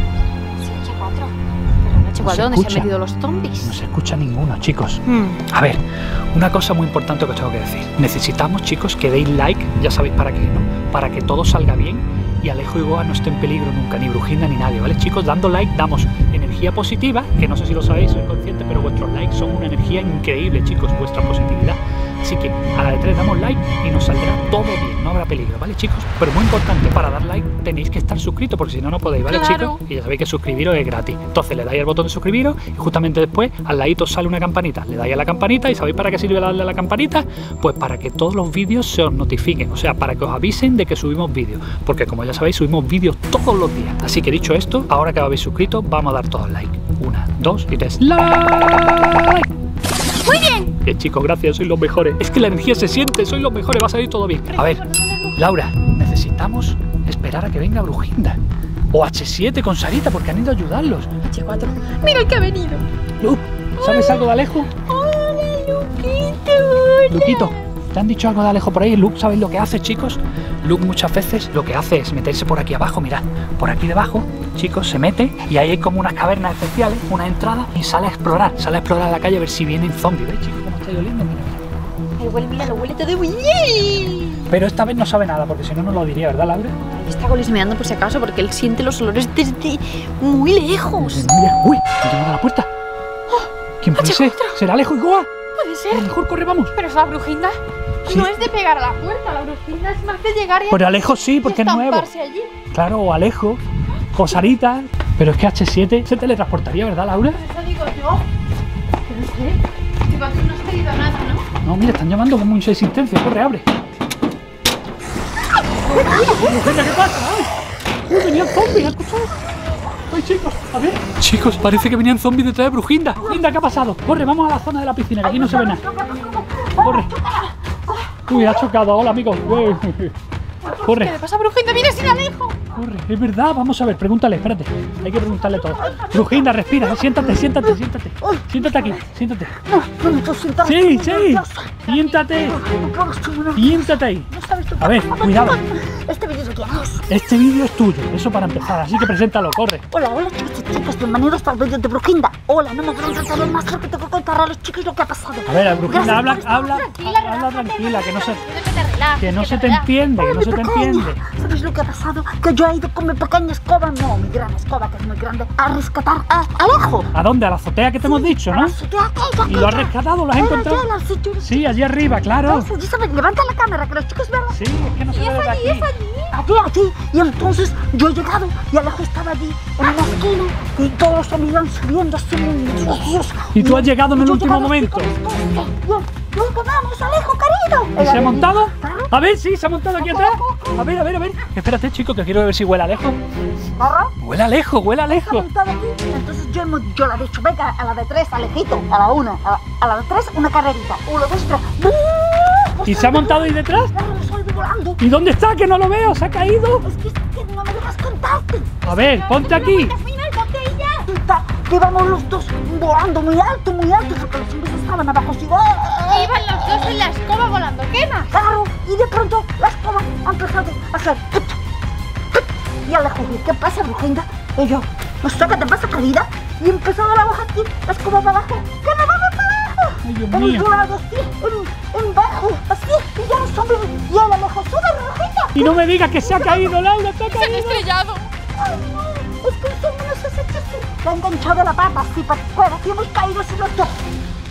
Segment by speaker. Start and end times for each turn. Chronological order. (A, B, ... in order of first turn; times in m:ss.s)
0:00.6-0:03.8 A
0:02.2-0:02.9 B
0:03.6-0:49.5 B
0:05.1-0:05.4 A
0:29.2-0:29.8 A
0:50.2-0:50.7 A
0:50.8-0:54.8 B
0:54.5-0:55.4 A
0:55.4-0:58.4 B
0:58.9-1:01.1 B
1:01.3-1:02.8 A
1:03.2-1:04.7 B
1:03.8-1:04.3 A
1:04.8-1:07.6 A
1:07.1-1:21.6 B
1:22.2-1:24.5 A
1:24.5-1:26.8 B
1:26.9-1:31.3 A
1:31.0-1:32.7 B
1:33.3-1:34.6 A
1:33.8-1:35.3 B
1:35.6-1:36.1 A
1:35.9-1:36.7 B
1:36.7-1:42.5 A
1:40.7-1:42.1 B
1:42.7-1:43.6 B
1:44.1-1:47.4 B
1:47.3-1:48.2 A
1:49.0-1:51.4 A
1:51.6-1:53.7 B
1:55.9-1:57.5 B
1:56.0-1:56.3 A
1:58.0-1:59.3 B
2:00.1-2:05.8 B
2:05.2-2:08.6 C
2:06.8-2:07.1 B
2:08.3-2:10.2 B
2:10.6-2:12.6 A
2:10.8-2:11.2 B
2:12.7-2:19.6 B
2:15.8-2:19.0 C
2:19.6-2:27.1 C
2:20.6-2:22.6 B
2:21.8-2:22.4 A
2:23.6-2:25.6 B
2:27.1-2:29.8 B
2:29.9-2:36.9 C
2:35.4-2:38.4 B
2:36.0-2:40.0 A
2:39.2-2:41.2 B
2:40.2-2:47.1 C
2:47.1-2:48.7 B
2:48.0-2:54.6 C
2:49.4-2:50.8 B
2:51.4-2:52.7 B
2:54.5-2:55.9 B
2:55.1-2:56.4 A
2:56.3-3:09.1 C
3:03.5-3:05.1 B
3:08.0-3:13.2 B
3:10.0-3:10.8 C
3:13.8-3:14.2 C
3:14.2-3:15.4 B
3:15.1-3:25.0 C
3:22.8-3:23.9 B
3:25.0-3:26.9 B
3:26.8-3:28.8 C
3:28.8-3:29.9 B
3:28.9-3:31.1 A
3:31.0-3:37.1 C
3:36.1-3:38.3 A
3:38.3-3:41.6 C
3:42.4-3:56.8 C
3:50.0-3:50.7 B
3:55.5-3:57.8 B
3:57.2-3:58.3 A
3:58.6-4:03.9 C